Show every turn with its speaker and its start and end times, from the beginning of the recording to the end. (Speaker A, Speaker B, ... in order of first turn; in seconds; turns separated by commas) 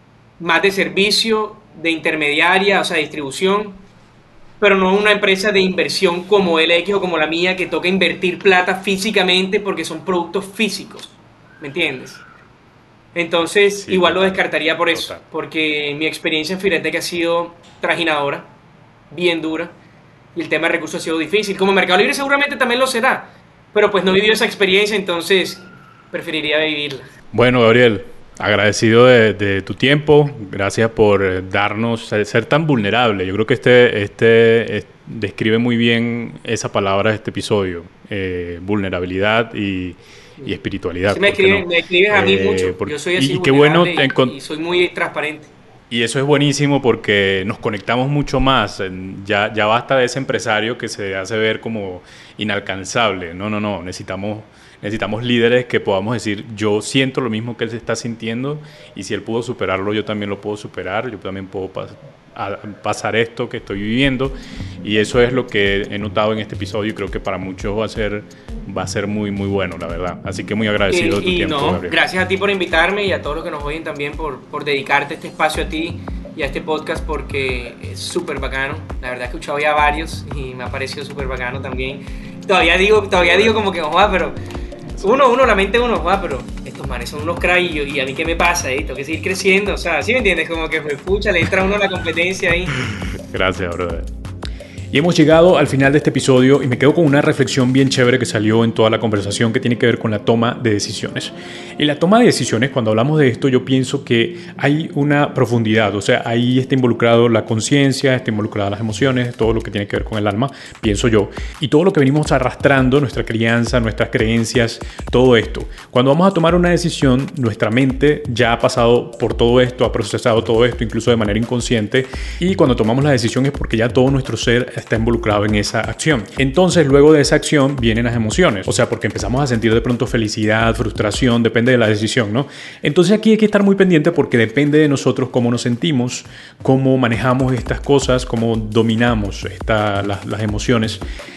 Speaker A: 0.4-3.8, Speaker A: 4.6-12.2, Speaker A: 13.2-18.5, Speaker B: 13.8-14.4, Speaker B: 14.9-15.2, Speaker A: 19.1-19.7, Speaker A: 20.4-27.1, Speaker B: 27.3-44.4, Speaker A: 41.1-45.5, Speaker B: 45.9-72.0, Speaker A: 70.9-84.4, Speaker A: 85.0-92.8, Speaker B: 92.8-94.1, Speaker B: 94.9-141.0